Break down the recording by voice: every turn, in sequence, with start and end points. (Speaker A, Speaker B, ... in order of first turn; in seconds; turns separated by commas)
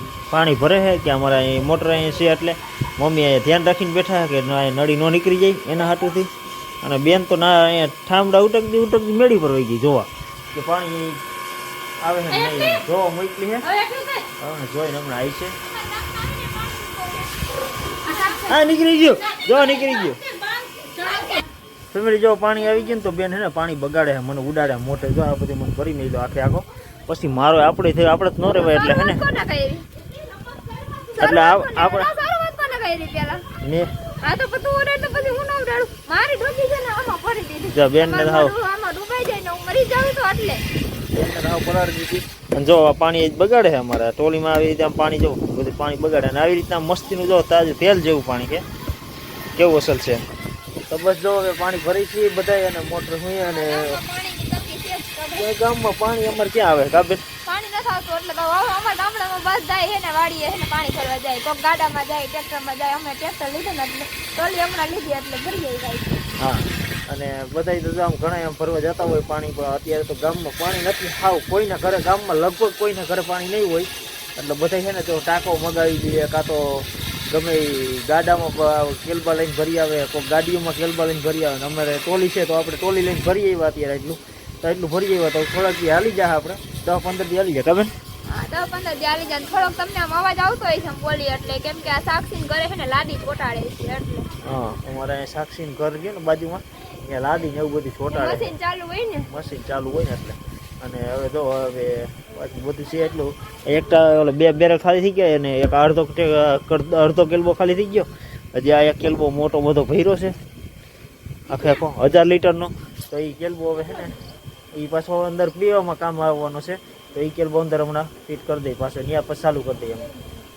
Speaker A: 0.3-11.2, Speaker A: 12.0-13.7, Speaker B: 12.4-12.8, Speaker B: 13.7-14.3, Speaker A: 14.4-15.6, Speaker B: 15.7-17.4, Speaker B: 18.0-18.5, Speaker A: 18.4-20.2, Speaker B: 20.8-21.4, Speaker A: 21.9-29.2, Speaker B: 28.5-29.9, Speaker B: 30.5-33.5, Speaker A: 31.2-32.1, Speaker A: 33.6-34.0, Speaker B: 34.2-40.6, Speaker A: 37.7-38.5, Speaker A: 41.1-48.6, Speaker A: 49.6-50.2, Speaker A: 50.9-54.0, Speaker B: 53.4-55.5, Speaker A: 55.4-57.2, Speaker B: 57.5-66.2, Speaker A: 66.4-87.9, Speaker B: 88.3-94.3, Speaker A: 94.4-98.5, Speaker B: 98.1-99.3, Speaker A: 99.3-110.3, Speaker A: 111.5-114.2, Speaker A: 114.7-120.1